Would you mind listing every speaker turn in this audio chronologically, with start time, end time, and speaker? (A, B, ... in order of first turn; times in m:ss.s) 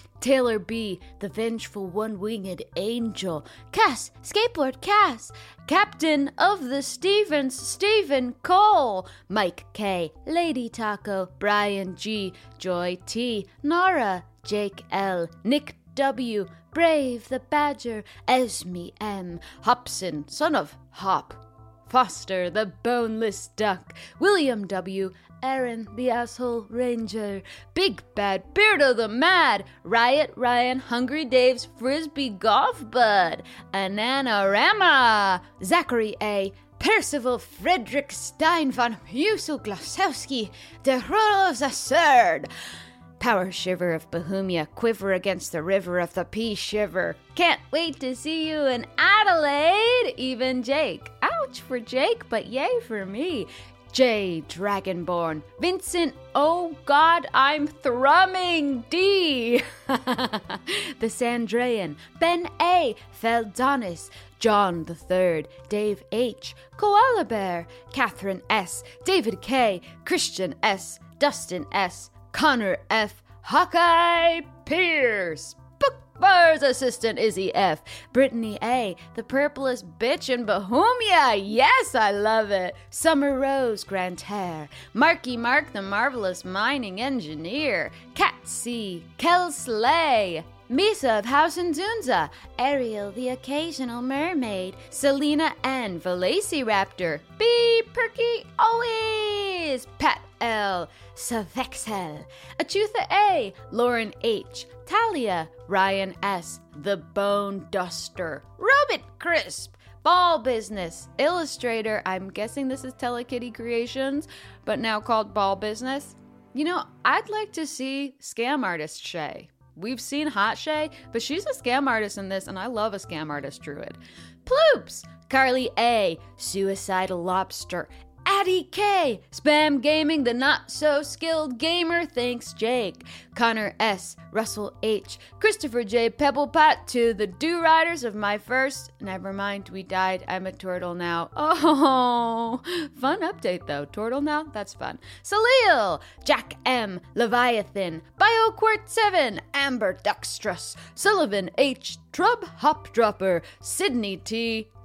0:00.2-0:21.4 A
0:21.9-0:42.4 A
0:43.2-2:34.7 A